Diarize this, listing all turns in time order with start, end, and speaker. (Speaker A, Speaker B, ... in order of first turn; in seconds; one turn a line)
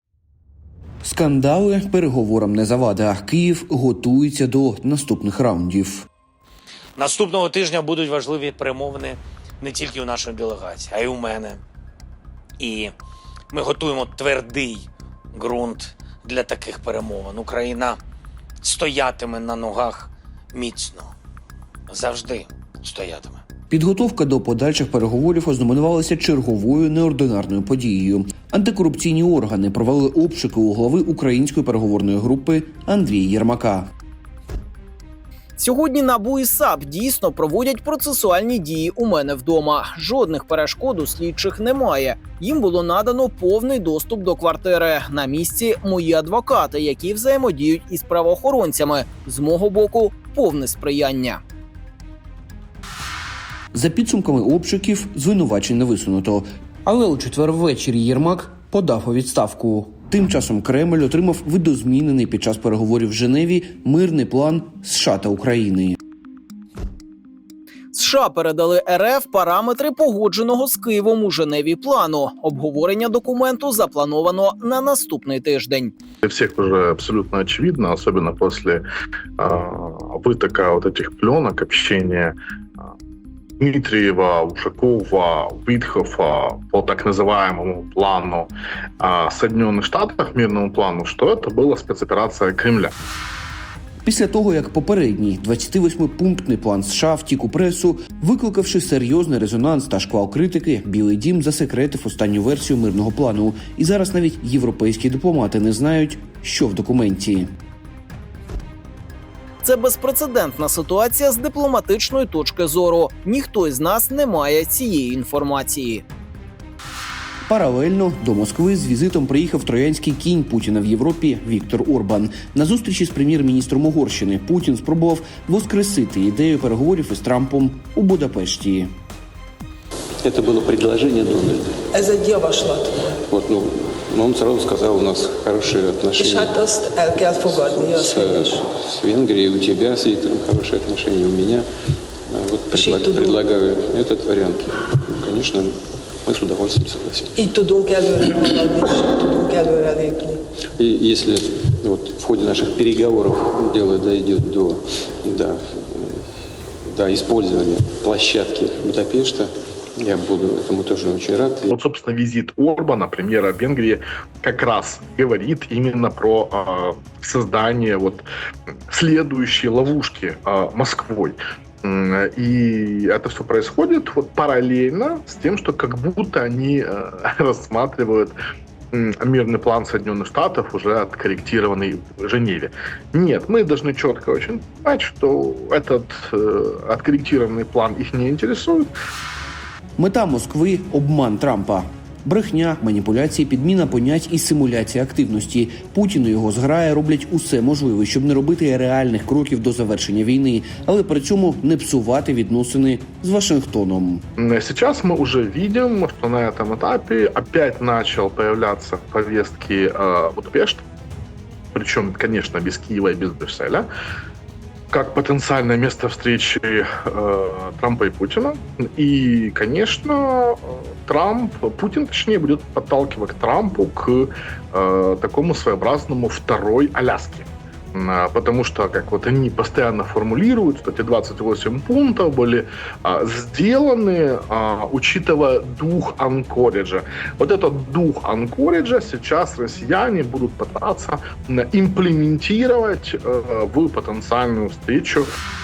Speaker A: 1.0-6.1
Speaker B: 7.0-11.6
Speaker B: 12.6-12.9
Speaker B: 13.5-18.0
Speaker B: 18.6-21.1
Speaker B: 21.9-23.4
Speaker A: 23.7-33.9
Speaker C: 35.6-51.4
Speaker A: 53.7-66.0
Speaker C: 67.9-75.9
Speaker D: 76.2-78.8
Speaker D: 79.4-82.9
Speaker D: 83.6-92.9
Speaker A: 94.0-107.5
Speaker C: 109.6-116.0
Speaker A: 117.5-128.9
Speaker E: 130.2-131.8
Speaker F: 131.9-133.0
Speaker E: 133.3-136.6
Speaker F: 136.2-138.7
Speaker E: 137.6-141.7
Speaker E: 142.3-147.3
Speaker F: 142.7-143.4
Speaker F: 147.3-150.4
Speaker E: 150.8-156.3
Speaker E: 156.8-161.7
Speaker D: 161.7-168.3
Speaker D: 168.9-178.3
Speaker D: 178.9-188.9
Speaker A: 190.0-204.2
Speaker D: 204.4-210.8
Speaker D: 211.7-213.9
Speaker D: 214.9-245.3